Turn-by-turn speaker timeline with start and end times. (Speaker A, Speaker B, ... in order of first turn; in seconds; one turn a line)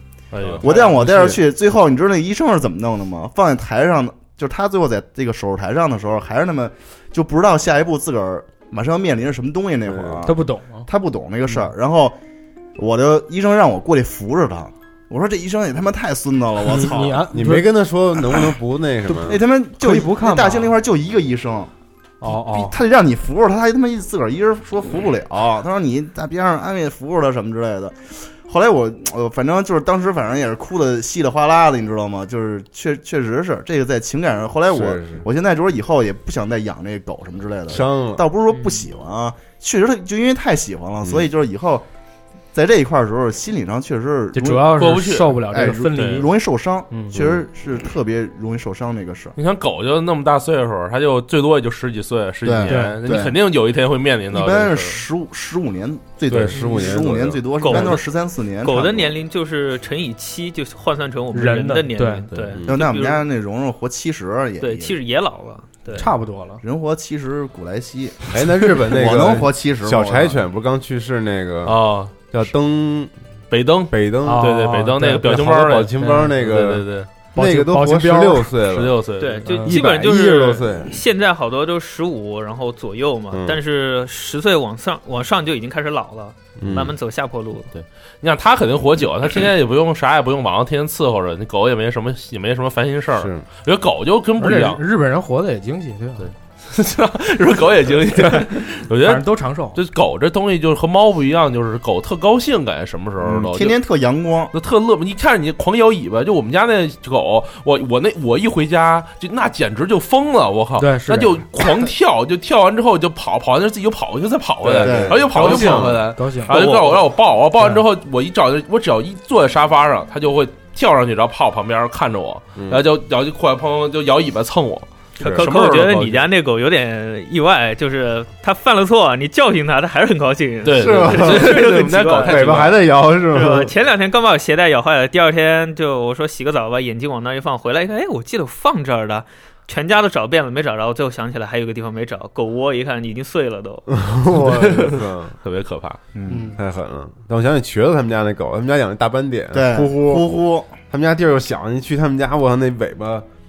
Speaker A: 0.3-0.7
Speaker B: 0.4-1.4
Speaker C: 0.6-12.2
Speaker B: 9.8-10.2
Speaker D: 10.2-10.9
Speaker C: 12.8-17.3
Speaker D: 16.6-17.7
Speaker B: 17.3-19.4
Speaker D: 19.1-20.7
Speaker C: 19.2-21.7
Speaker D: 22.2-22.8
Speaker C: 22.2-41.9
Speaker B: 34.7-35.2
Speaker B: 37.7-38.3
Speaker B: 41.0-41.3
Speaker C: 42.5-44.8
Speaker D: 44.3-46.3
Speaker A: 44.8-45.4
Speaker C: 45.5-49.4
Speaker A: 46.0-46.2
Speaker D: 46.9-47.1
Speaker A: 49.4-55.0
Speaker C: 52.4-53.4
Speaker D: 52.7-53.0
Speaker C: 54.3-59.2
Speaker B: 56.3-57.9
Speaker E: 57.6-58.1
Speaker E: 58.6-63.2
Speaker D: 61.3-62.2
Speaker A: 62.3-62.6
Speaker C: 62.6-65.0
Speaker E: 64.6-66.1
Speaker D: 65.9-66.6
Speaker C: 66.6-70.4
Speaker B: 68.3-73.1
Speaker A: 71.6-72.1
Speaker A: 73.5-77.1
Speaker B: 73.9-79.0
Speaker D: 74.2-75.4
Speaker D: 76.0-76.3
Speaker D: 77.3-78.5
Speaker A: 78.7-79.5
Speaker E: 79.2-87.7
Speaker D: 79.5-79.7
Speaker B: 79.6-81.0
Speaker B: 83.3-83.6
Speaker B: 86.6-86.9
Speaker A: 87.7-94.8
Speaker B: 93.2-93.4
Speaker D: 94.4-96.3
Speaker A: 96.2-103.8
Speaker D: 98.2-99.8
Speaker C: 103.2-104.5
Speaker A: 104.5-126.3
Speaker D: 110.8-111.4
Speaker B: 114.7-116.0
Speaker C: 114.7-115.9
Speaker D: 115.4-116.6
Speaker E: 116.5-117.0
Speaker D: 117.6-117.8
Speaker B: 122.6-122.8
Speaker E: 125.2-132.8
Speaker A: 130.6-132.8
Speaker B: 130.8-133.7
Speaker E: 133.3-143.9
Speaker B: 143.9-145.4
Speaker A: 144.4-146.0
Speaker C: 146.1-146.6
Speaker D: 146.3-146.6
Speaker B: 146.5-153.2
Speaker C: 149.5-150.7